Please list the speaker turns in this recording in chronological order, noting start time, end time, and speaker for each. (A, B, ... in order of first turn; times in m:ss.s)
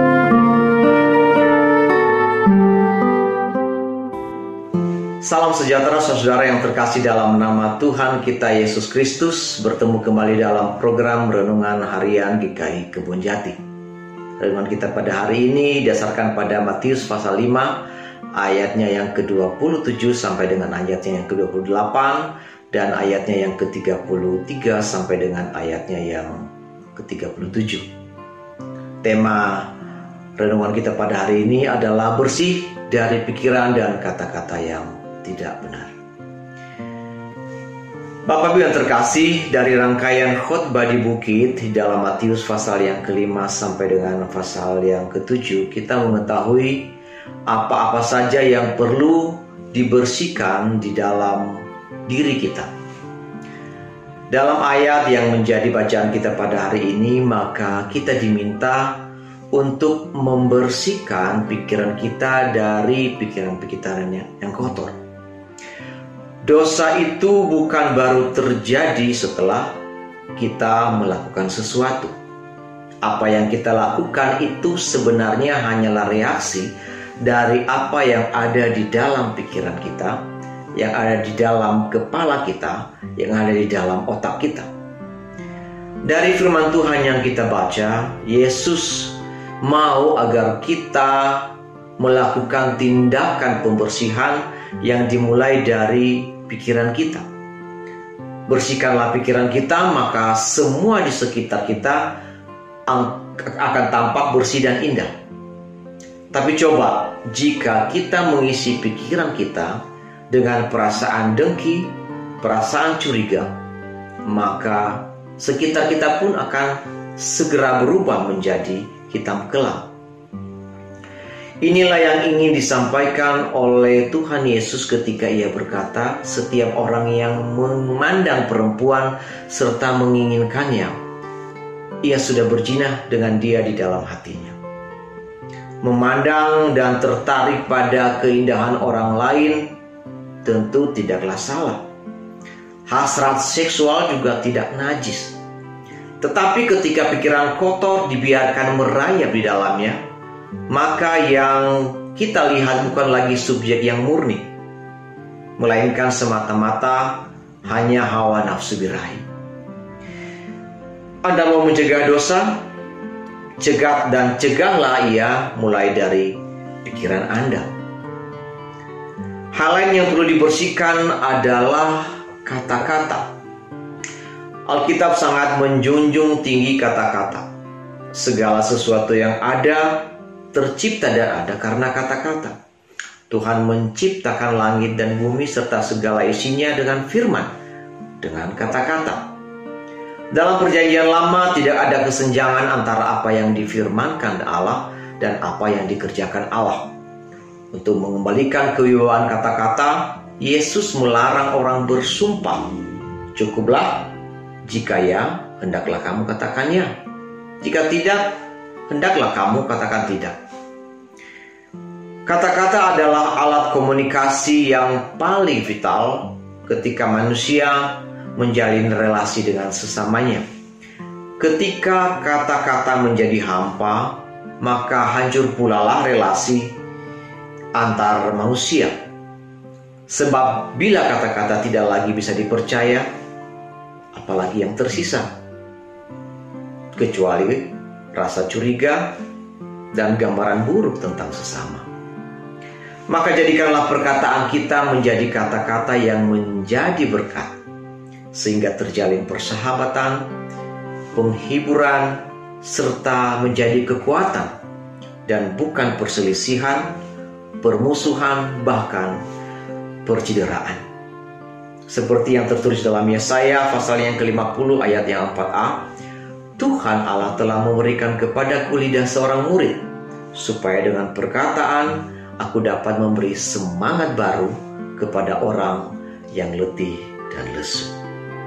0:05.2-0:13.6 A
0:14.4-0:17.8 A
0:18.4-0:26.4 A
0:27.0-0:27.9 A
0:29.0-0:29.7 A
0:30.4-0:35.9 A
0:38.3-0:46.9 A
0:47.5-0:52.7 A
0:54.3-0:59.0 A
0:59.5-1:05.0 A
1:06.4-1:09.8 A
1:10.4-1:12.1 A
1:13.0-1:20.2 A
1:20.8-1:24.7 A
1:26.0-1:37.3 A
1:38.5-1:42.2 A
1:42.9-1:45.1 A
1:46.3-1:53.5 A
1:54.3-1:59.9 A
2:01.6-2:11.0 A
2:12.0-2:14.6 A
2:15.8-2:19.7 A
2:20.4-2:21.8 A
2:22.9-2:25.4 A
2:26.2-2:30.0 A
2:30.7-2:34.5 A
2:35.6-2:39.2 A
2:41.2-2:42.6 A
2:43.6-2:47.7 A
2:49.5-2:53.3 A
2:54.7-2:57.5 A
2:58.1-3:02.6 A
3:03.3-3:07.5 A
3:08.2-3:09.3 A
3:10.3-3:16.9 A
3:17.7-3:22.7 A
3:23.3-3:24.1 A
3:24.6-3:26.9 A
3:27.6-3:30.4 A
3:32.3-3:40.4 A
3:41.4-3:46.7 A
3:47.8-3:49.0 A
3:50.1-3:53.1 A
3:54.1-3:55.3 A
3:57.0-3:59.2 A
3:59.9-4:01.9 A
4:03.1-4:07.6 A
4:08.3-4:10.3 A
4:11.1-4:14.5 A
4:15.3-4:17.0 A
4:17.6-4:19.2 A
4:20.0-4:20.8 A
4:21.9-4:25.9 A
4:26.6-4:38.0 A